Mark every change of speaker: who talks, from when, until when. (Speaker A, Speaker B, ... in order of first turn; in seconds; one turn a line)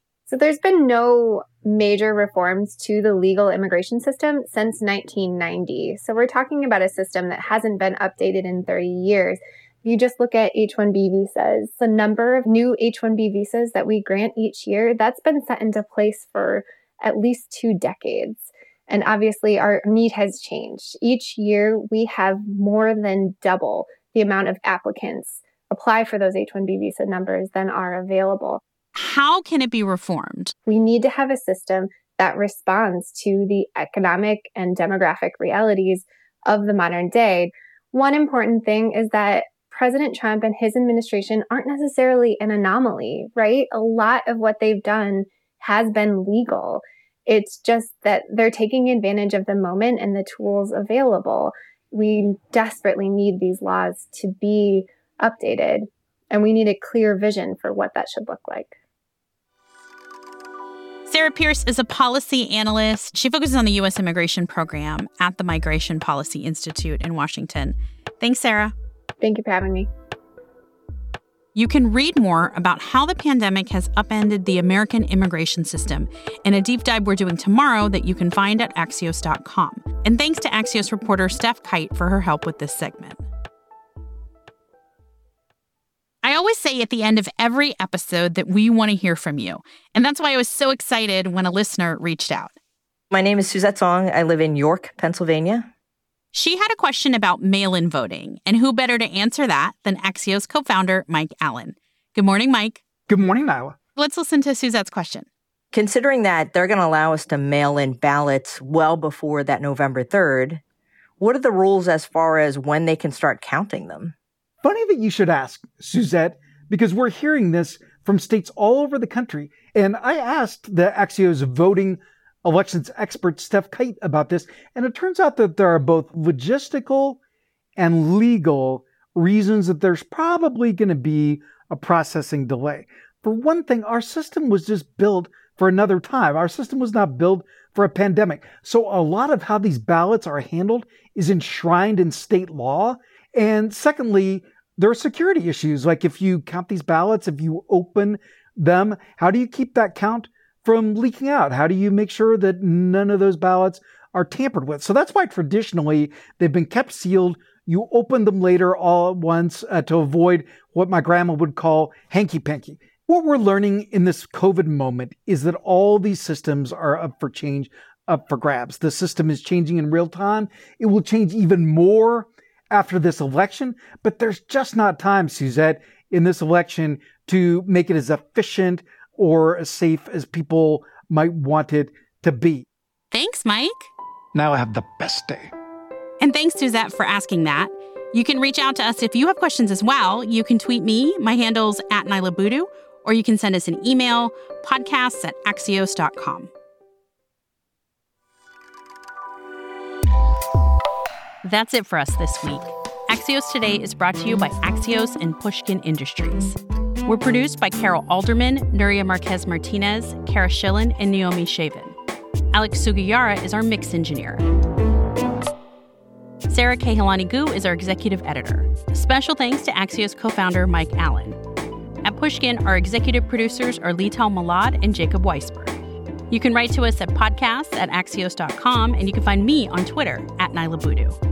Speaker A: 0.3-28.6
Speaker B: 29.0-30.5
Speaker A: 30.7-58.7
Speaker B: 61.1-68.7
Speaker A: 69.2-69.9
Speaker B: 71.5-83.2
Speaker B: 86.2-92.6
Speaker C: 93.1-95.7
Speaker B: 96.3-102.8
Speaker D: 103.1-103.8
Speaker B: 104.0-105.3
Speaker C: 105.7-110.6
Speaker C: 111.2-114.2
Speaker D: 114.6-127.2
Speaker D: 127.8-182.7
Speaker B: 183.1-183.9
Speaker D: 184.3-185.5
Speaker B: 186.2-196.5
Speaker B: 201.4-212.0
Speaker B: 212.5-214.4
Speaker B: 216.5-221.4
Speaker B: 222.0-225.8
Speaker B: 226.3-231.2